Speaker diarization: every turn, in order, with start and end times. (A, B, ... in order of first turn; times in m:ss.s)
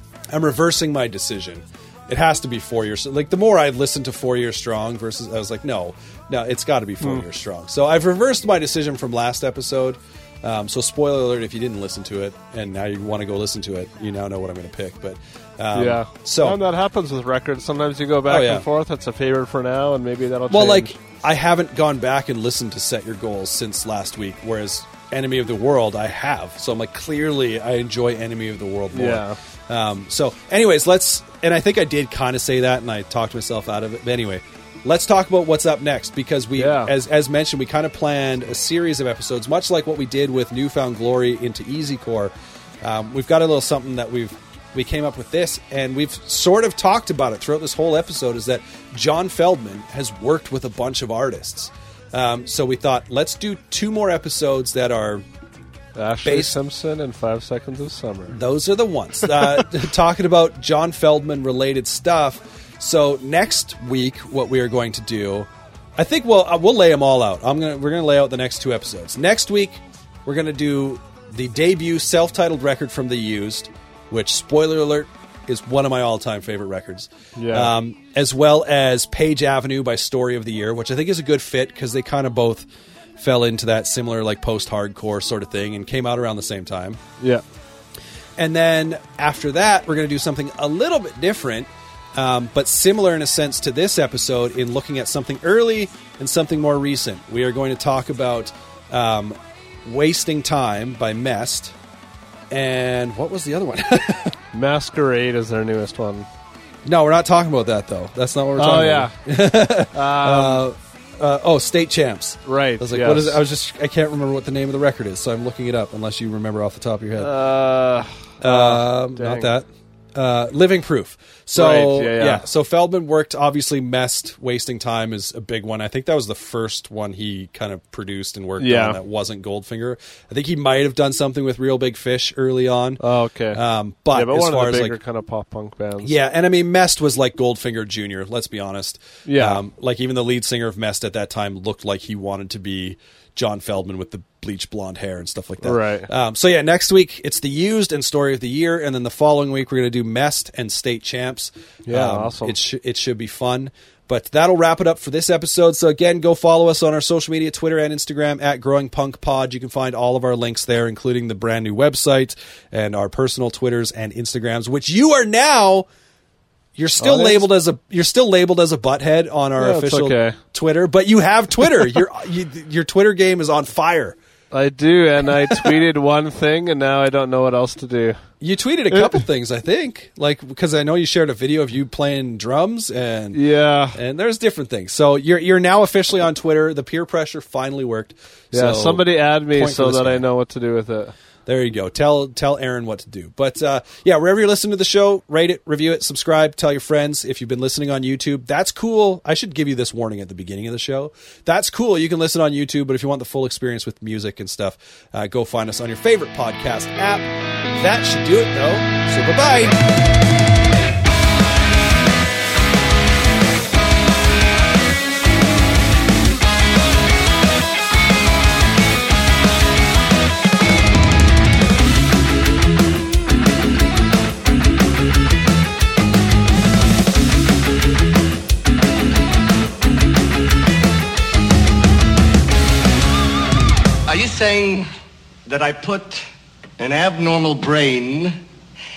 0:00.3-0:16.6 A
0:15.7-0:21.0 B
0:18.3-0:18.7 A
0:20.5-0:55.2 A
0:28.9-0:29.4 B
0:36.6-0:36.9 B
0:56.0-0:58.4 B
0:56.2-0:56.6 A
0:58.3-1:27.0 A
1:17.4-1:17.7 B
1:28.4-1:41.8 A
1:42.5-1:44.4 A
1:44.5-1:46.3 B
1:46.9-1:57.3 A
1:48.6-1:49.1 B
1:49.9-1:50.7 B
1:52.5-1:53.4 B
1:57.2-1:59.5 B
1:58.4-2:15.0 A
2:01.6-2:02.4 B
2:08.6-2:09.0 B
2:13.0-2:16.1 B
2:16.0-2:45.9 A
2:19.3-2:19.6 B
2:25.6-2:26.1 B
2:31.9-2:32.6 B
2:46.8-2:54.2 A
2:47.0-2:47.4 B
2:49.6-2:50.4 B
2:54.5-2:58.2 B
2:55.4-2:55.8 A
2:58.4-3:03.4 A
2:58.9-2:59.2 B
3:03.3-3:04.0 B
3:03.9-3:10.2 A
3:08.5-3:11.1 B
3:11.5-3:29.8 A
3:54.1-3:54.9 C
3:55.5-3:56.2 C
3:56.8-3:58.4 C